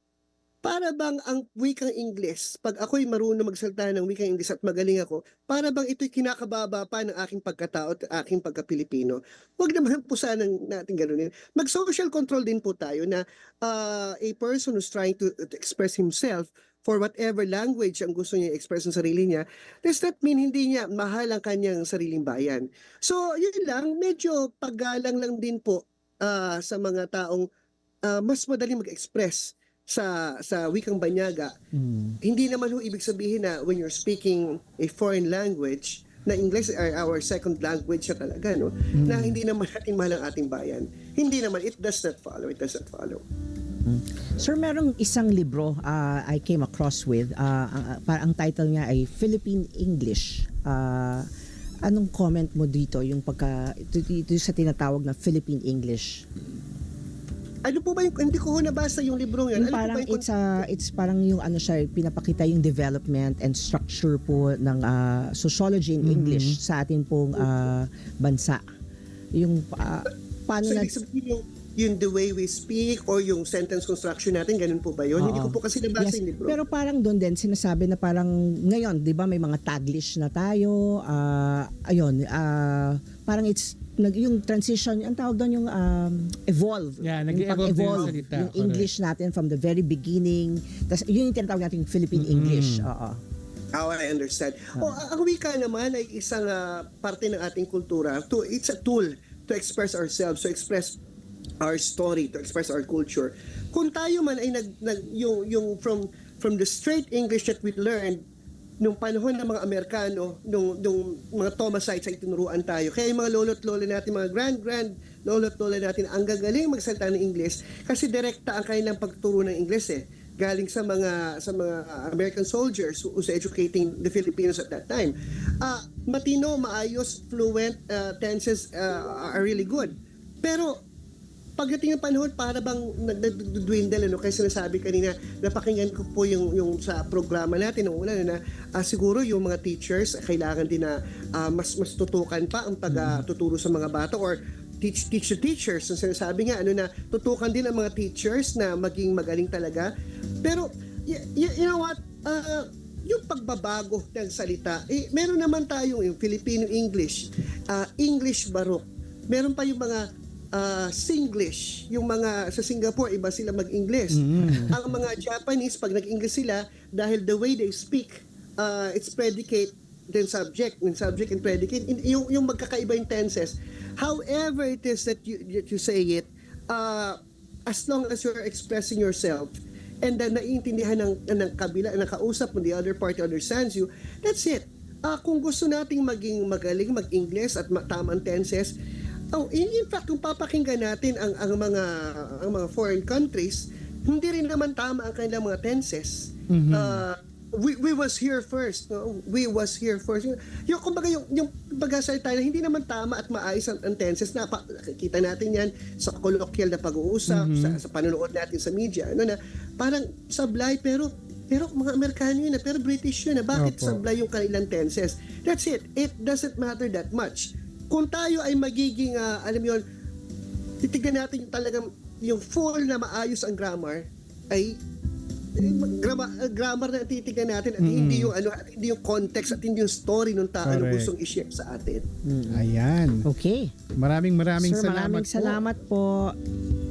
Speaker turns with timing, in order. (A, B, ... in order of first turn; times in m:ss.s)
0:00.6-0:27.4 A
0:28.0-0:31.5 A
0:31.7-0:32.2 B
0:32.2-0:43.2 A
0:38.9-0:39.4 B
0:43.8-0:51.3 C
0:51.8-0:56.2 C
0:57.6-1:00.7 A
0:59.5-1:08.6 C
1:06.0-1:06.6 B
1:09.3-1:10.9 C
1:10.6-1:16.6 A
1:15.2-1:33.2 C
1:27.0-1:28.9 B
1:27.6-1:28.1 A
1:32.1-1:32.9 B
1:33.7-1:41.0 A
1:41.6-1:48.2 A
1:48.8-2:10.7 A
2:11.6-2:29.9 A
2:22.9-2:23.2 B
2:30.4-2:40.0 A
2:40.5-2:57.2 A
2:44.1-2:44.8 B
2:57.7-3:08.7 A
3:09.3-3:39.8 A
3:16.5-3:17.0 B
3:27.3-3:27.8 B
3:33.5-3:34.0 B
3:40.8-3:44.8 A
3:45.6-3:52.0 A
3:47.8-3:48.3 B
3:50.6-3:51.1 B
3:52.2-3:52.6 C
3:52.5-3:53.2 B
3:53.2-3:53.7 C
3:54.0-3:55.6 B
3:54.6-3:56.4 C